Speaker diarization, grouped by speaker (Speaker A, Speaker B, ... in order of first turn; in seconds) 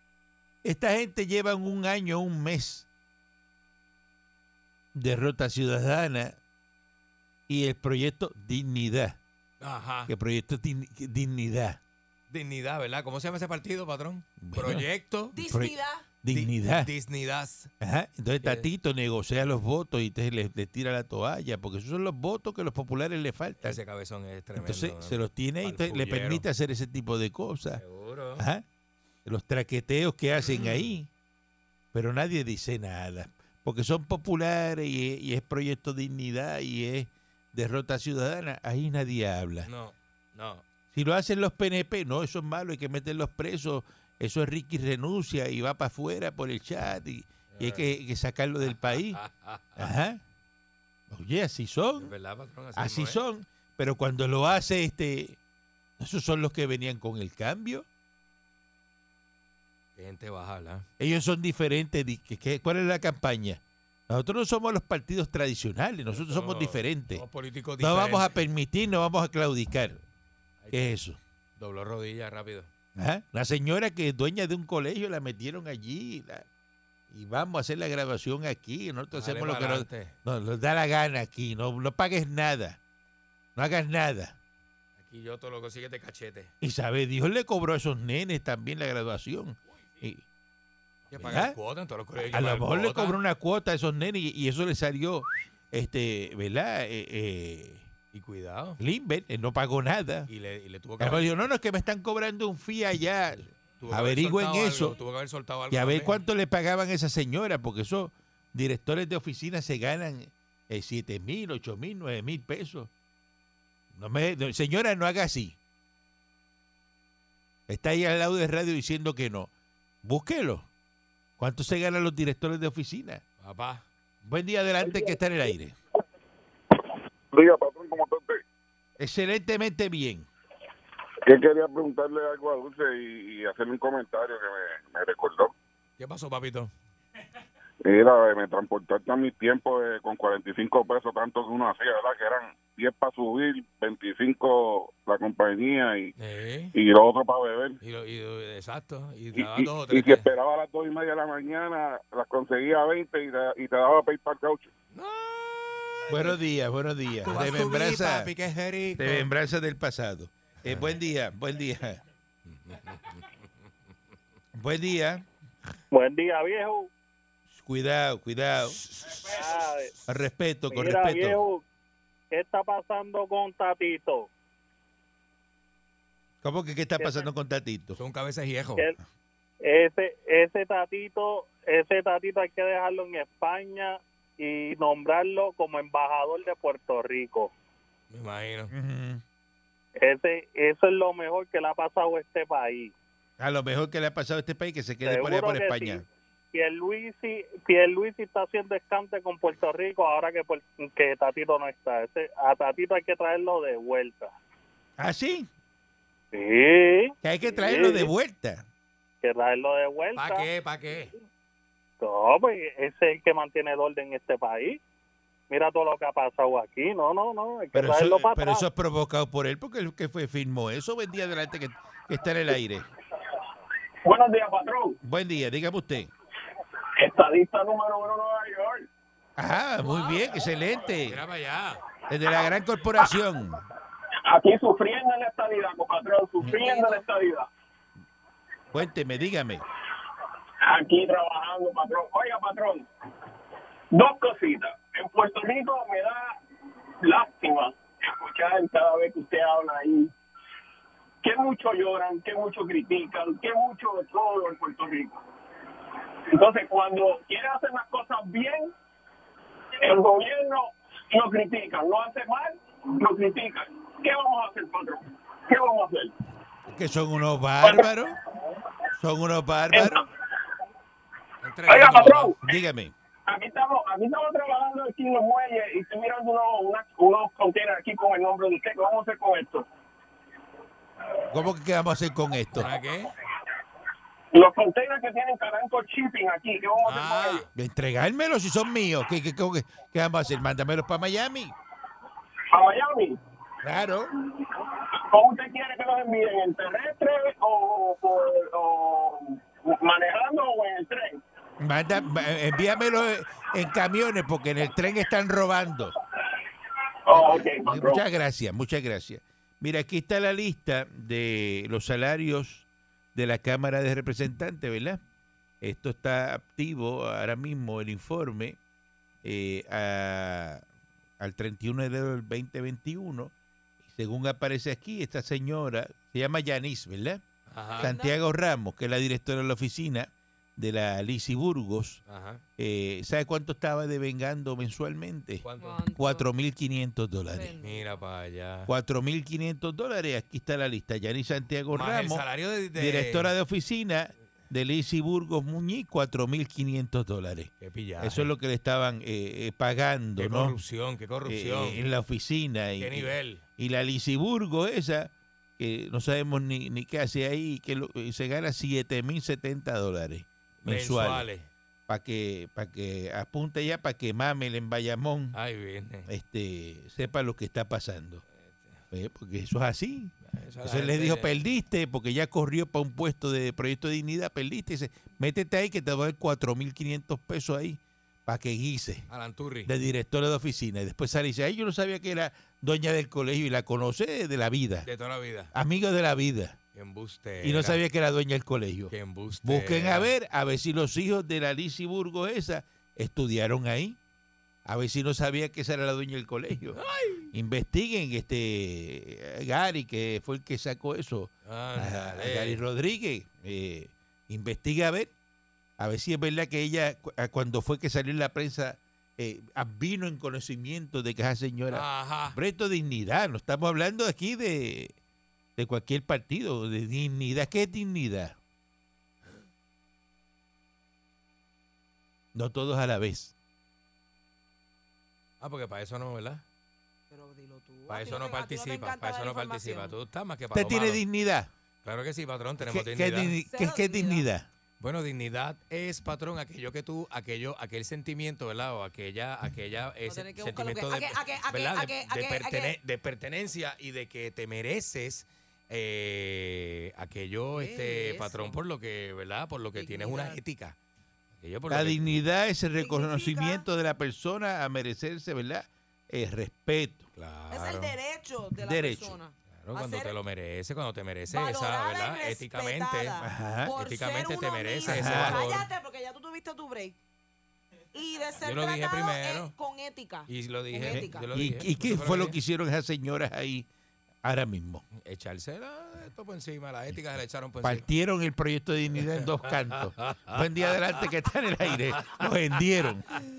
Speaker A: 0.6-2.9, 4.9-6.4, 7.5-9.2, 10.1-11.8, 14.4-14.8, 15.4-16.9, 17.8-23.8, 24.6-27.8, 28.4-28.6, 29.2-31.1, 31.9-39.7, 40.9-49.2, 49.8-50.2, 51.1-52.1, 52.7-55.4, 56.0-57.9, 61.0-67.2, 67.8-70.0, 70.7-71.2, 73.0-76.5, 77.1-82.8, 83.5-84.4, 86.6-90.2, 91.2-91.5, 92.2-97.9, 98.8-100.3, 101.0-105.0, 105.7-112.9, 113.9-115.6, 117.7-119.5, 120.0-120.7, 121.4-123.2, 124.2-125.8, 129.0-130.3, 156.1-158.3, 159.0-162.0, 164.5-165.3, 167.5-168.8, 170.1-171.4, 176.4-178.0, 188.7-189.2, 193.4-196.0, 205.0-205.5, 207.2-208.6, 217.7-222.9, 225.0-226.1, 229.4-231.2, 232.1-233.6, 238.7-239.6, 266.7-268.1, 268.9-270.0, 272.4-272.9, 281.3-282.7, 287.5-291.5, 293.6-294.1, 301.6-305.9, 307.1-315.0, 315.6-318.6, 319.2-320.6, 321.2-323.3, 323.8-327.2, 327.8-332.0, 332.6-337.6, 338.7-350.6, 351.2-361.3, 361.9-365.4, 366.1-368.2, 368.9-379.1, 379.6-384.9, 385.5-386.6, 387.4-388.9, 389.4-394.0, 394.6-396.8, 397.3-405.1, 405.8-414.9, 415.6-418.4, 422.3-423.3, 430.5-431.5, 432.6-434.5, 451.7-457.1, 458.6-459.2, 463.2-463.7, 464.8-465.4, 470.9-473.6, 474.2-474.9, 477.6-483.0
Speaker B: 9.6-10.1, 12.3-15.3, 16.3-17.7, 18.4-18.7, 23.6-26.4, 27.8-28.4, 30.5-30.9, 39.6-40.6, 47.5-47.9, 48.6-49.9, 52.0-53.2, 60.0-60.9, 66.1-68.4, 70.6-71.0, 71.6-72.7, 79.1-80.1, 85.0-86.5, 91.1-93.2, 98.1-98.8, 100.3-101.3, 103.8-106.2, 123.4-123.8, 136.0-136.7, 146.2-146.7, 147.8-150.3, 154.9-156.3, 157.2-159.3, 160.6-160.9, 162.4-163.4, 168.8-169.6, 177.9-178.9, 188.1-188.7, 210.1-211.1, 231.0-231.8, 271.4-272.3, 282.5-283.1, 286.9-287.5, 327.5-327.9, 332.1-332.4, 335.4-335.8, 337.6-338.7, 341.7-343.3, 347.6-348.3, 350.2-351.8, 352.8-353.4, 360.6-361.5, 365.3-366.1, 368.3-368.8, 370.3-371.4, 379.1-379.7, 384.8-385.5, 386.7-387.8, 388.9-390.1, 396.7-397.3, 401.4-402.6, 411.7-412.4, 425.4-426.4, 427.9-431.0, 431.8-433.3, 434.8-450.8, 451.4-452.2, 457.1-457.9, 459.5-463.1, 463.8-465.7, 468.4-469.5, 470.3-472.4, 474.9-477.8, 479.1-481.0, 481.7-482.2
Speaker C: 15.3-16.0, 236.6-237.0, 327.7-328.2, 335.6-336.3, 337.3-338.0, 427.1-429.9, 433.4-434.3, 440.1-442.8, 447.5-448.6, 449.7-450.4, 452.8-453.6, 457.5-460.1, 461.3-466.9, 467.9-471.2
Speaker D: 127.3-128.4, 131.2-135.5, 137.8-146.1, 146.7-147.8, 149.3-154.7
Speaker E: 165.9-166.9, 169.3-169.9, 170.7-171.6, 172.3-174.3, 177.0-177.3, 179.6-187.5, 190.0-192.9, 195.0-196.0, 196.5-204.3, 206.3-208.1, 209.2-210.5, 212.0-214.8, 215.5-218.7
Speaker F: 224.1-225.0, 227.0-228.9, 234.2-237.5, 240.6-242.9, 243.9-246.3, 247.0-250.1, 251.2-255.2, 256.3-258.7, 259.8-266.1, 267.6-267.9, 269.7-270.0, 271.7-272.6, 273.3-279.7, 284.3-287.4, 292.5-293.2, 295.1-301.2, 307.1-308.0